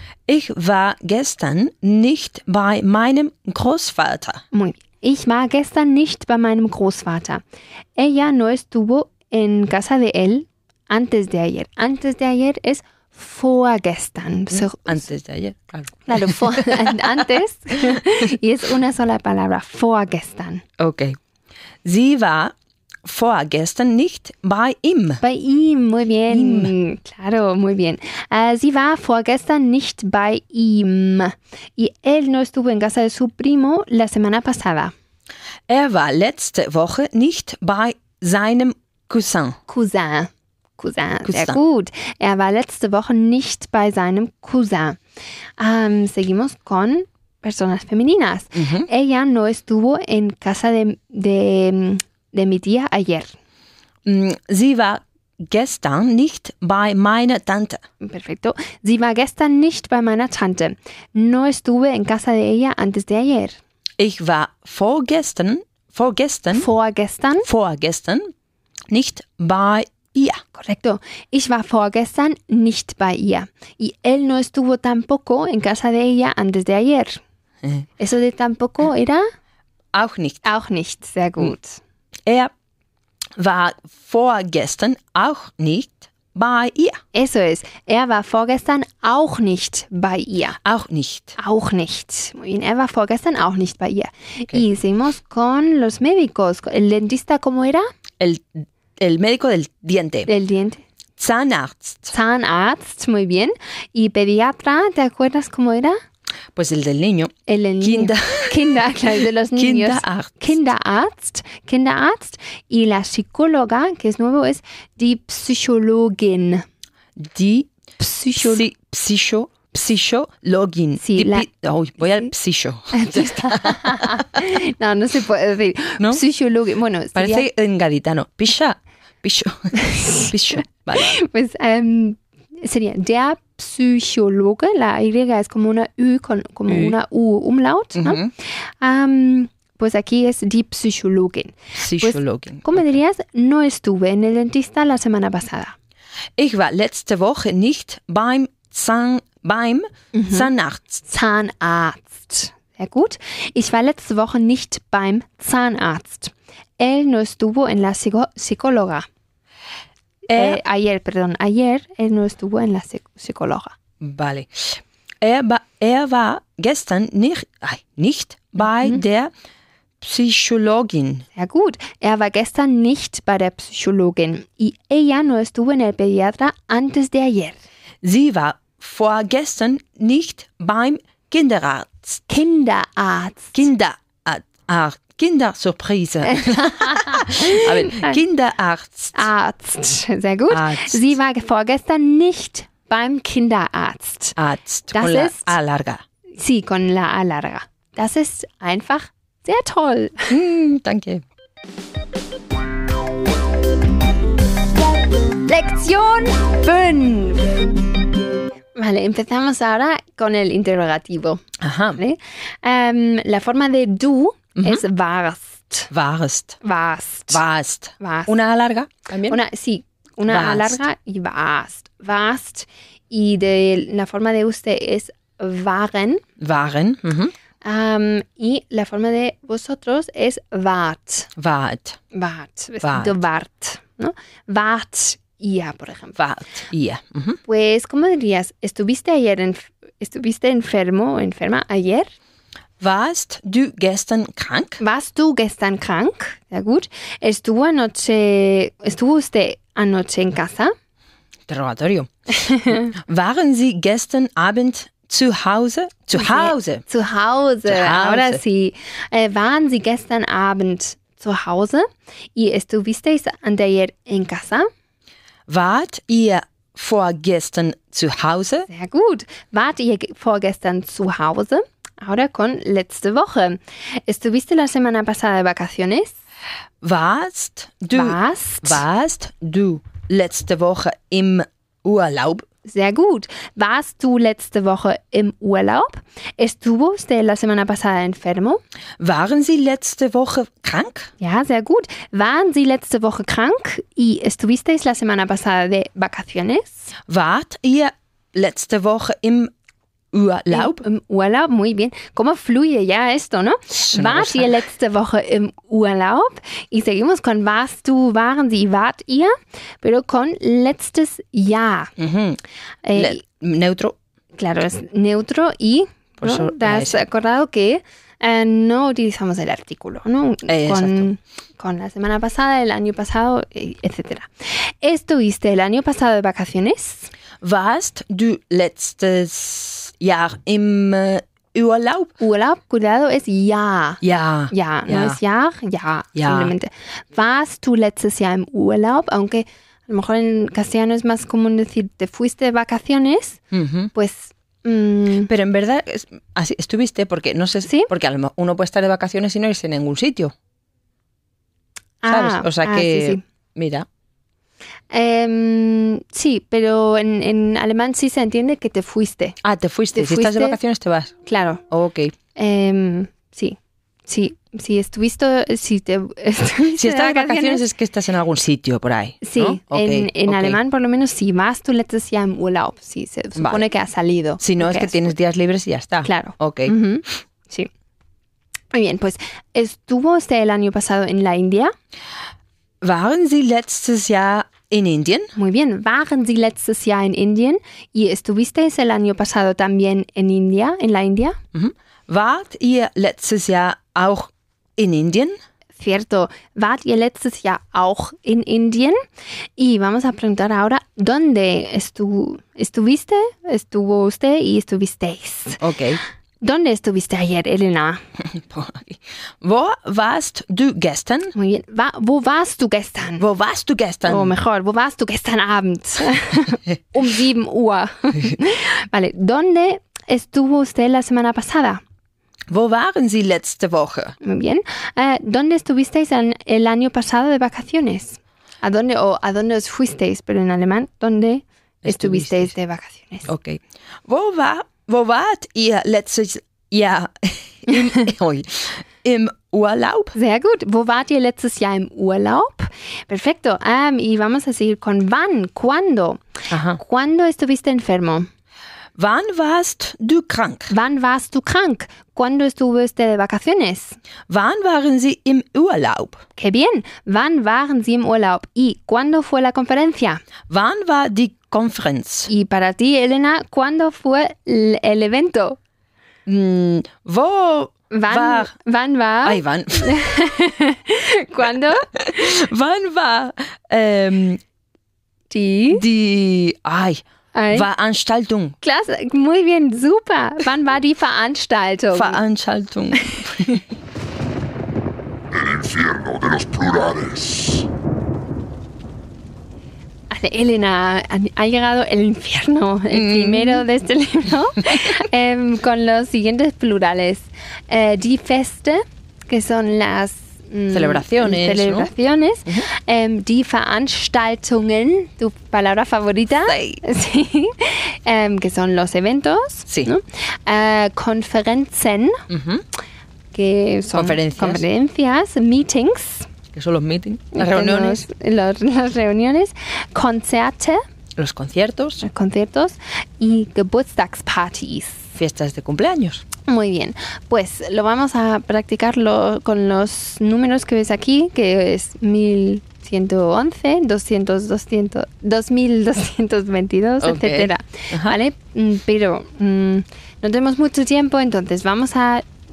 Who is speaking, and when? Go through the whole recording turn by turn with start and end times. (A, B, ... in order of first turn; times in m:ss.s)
0:00.3-0:04.4 A
0:04.5-0:07.4 B
0:08.0-0:15.0 B
0:14.5-0:17.2 A
0:16.1-0:20.6 B
0:20.8-0:21.2 A
0:21.8-0:22.5 A
0:23.0-0:25.2 A
0:25.2-0:34.9 B
0:26.3-0:26.7 A
0:35.7-0:39.6 A
0:39.7-0:45.0 B
0:41.2-0:41.6 A
0:45.6-0:53.3 B
0:48.5-0:48.9 A
0:54.0-0:57.8 A
0:58.0-1:03.6 B
1:04.0-1:06.7 A
1:06.5-1:07.5 B
1:07.4-1:08.3 A
1:08.9-1:10.4 A
1:10.5-1:17.2 B
1:18.0-1:19.3 B
1:19.9-1:20.4 A
1:20.4-1:21.8 B
1:22.2-1:22.5 A
1:23.4-1:27.0 A
1:27.1-1:30.6 B
1:30.6-1:31.4 A
1:31.4-1:37.9 B
1:38.2-1:40.3 A
1:40.3-1:40.8 B
1:41.2-1:42.1 A
1:42.1-1:46.0 B
1:46.5-1:48.8 A
1:47.5-1:56.6 B
1:49.6-1:50.6 A
1:57.2-1:57.7 A
1:58.0-1:58.6 B
1:58.4-2:04.2 A
2:01.0-2:01.5 B
2:02.9-2:07.4 B
2:07.1-2:11.1 A
2:09.8-2:10.3 B
2:10.9-2:25.7 B
2:16.7-2:16.9 A
2:18.0-2:18.3 A
2:21.8-2:22.9 A
2:26.4-2:31.0 A
2:30.1-2:30.5 B
2:31.1-2:39.0 B
2:40.3-2:43.7 B
2:40.3-2:40.6 A
2:44.0-2:49.3 A
2:50.0-2:51.2 A
2:51.3-2:57.6 B
2:58.0-3:02.2 A
3:02.3-3:03.6 B
3:03.5-3:09.3 A
3:06.2-3:08.2 B
3:09.1-3:14.4 B
3:10.5-3:11.1 A
3:14.4-3:16.0 A
3:14.9-3:15.5 B
3:16.3-3:20.4 B
3:20.3-3:21.2 A
3:25.4-3:27.7 B
3:28.7-3:31.4 B
3:31.6-3:32.0 A
3:32.0-3:35.9 B
3:34.6-3:34.8 A
3:35.9-3:36.6 A
3:36.6-3:37.4 B
3:37.3-3:39.4 A
3:38.0-3:38.3 B
3:39.3-3:46.2 B
3:40.3-3:40.8 A
3:46.4-3:47.3 A
3:47.6-3:51.3 B
3:51.4-3:52.0 A
3:52.1-3:56.2 B
3:52.8-3:53.1 A
3:56.2-3:57.4 A
3:57.5-4:02.1 B
4:02.8-4:04.8 A
4:04.8-4:10.7 B
4:11.5-4:12.1 A
4:12.4-4:12.9 B
4:12.9-4:16.8 A
4:16.1-4:24.7 B
4:17.6-4:18.4 A
4:25.5-4:28.7 A
4:28.7-4:36.1 B
4:36.8-4:42.4 A
4:37.9-4:38.8 B
4:42.6-4:48.6 B
4:49.0-4:51.1 A
4:51.2-4:56.9 B
4:57.1-4:59.5 A
5:00.1-5:00.8 A
5:00.5-5:11.9 B
5:03.7-5:04.5 A
5:12.0-5:12.4 A
5:12.8-5:13.2 B
5:12.9-5:13.9 A
5:14.4-5:27.1 B
5:16.2-5:17.0 A
5:20.5-5:21.1 A
5:27.4-5:32.1 A
5:32.2-5:43.4 B
5:34.0-5:35.2 A
5:36.1-5:36.5 A
5:43.5-5:43.9 A
5:43.9-5:45.3 B
5:45.3-5:50.3 A
5:52.0-5:53.2 B
5:52.1-5:53.8 A
5:54.9-5:59.4 B
5:59.4-6:01.1 A
5:59.9-6:00.6 B
6:01.2-6:01.6 B
6:01.7-6:02.1 A
6:02.3-6:07.6 B
6:06.8-6:10.6 A
6:09.2-6:15.1 B
6:13.4-6:13.6 A
6:14.4-6:16.7 A
6:16.0-6:17.7 B
6:18.7-6:21.7 B
6:22.8-6:25.3 A
6:25.4-6:31.4 B
6:31.5-6:35.4 A
6:35.8-6:39.0 B
6:39.6-6:45.6 B
6:45.6-6:46.0 A
6:46.4-6:48.0 B
6:48.2-6:51.3 A
6:51.3-6:53.2 B
6:53.2-6:54.3 A
6:54.0-7:01.8 B
7:02.5-7:04.2 A
7:04.2-7:13.3 B
7:11.8-7:12.5 A
7:13.2-7:20.1 A
7:20.1-7:28.3 B
7:26.5-7:26.8 A
7:29.0-7:30.7 A
7:30.7-7:34.0 B
7:34.3-7:36.2 A
7:36.4-7:40.2 B
7:40.5-7:42.3 A
7:42.3-7:45.6 B
7:46.2-7:48.5 A
7:47.9-7:51.9 B
7:49.2-7:50.0 A
7:51.9-7:54.4 A
7:55.3-7:55.8 B
7:55.7-7:58.6 A
7:57.3-7:57.7 B
7:58.6-8:02.2 B
8:01.9-8:03.6 A
8:05.3-8:07.7 C
8:10.1-8:32.2 B
8:12.9-8:13.6 A
8:20.7-8:21.9 A
8:26.4-8:26.8 A
8:32.3-8:32.6 A
8:33.3-8:36.3 B
8:33.9-8:34.6 A
8:36.5-8:38.0 A
8:37.3-8:40.8 B
8:41.2-8:42.0 A
8:42.0-8:45.1 B
8:45.1-8:46.2 A
8:46.4-9:02.2 B
8:57.0-8:58.2 A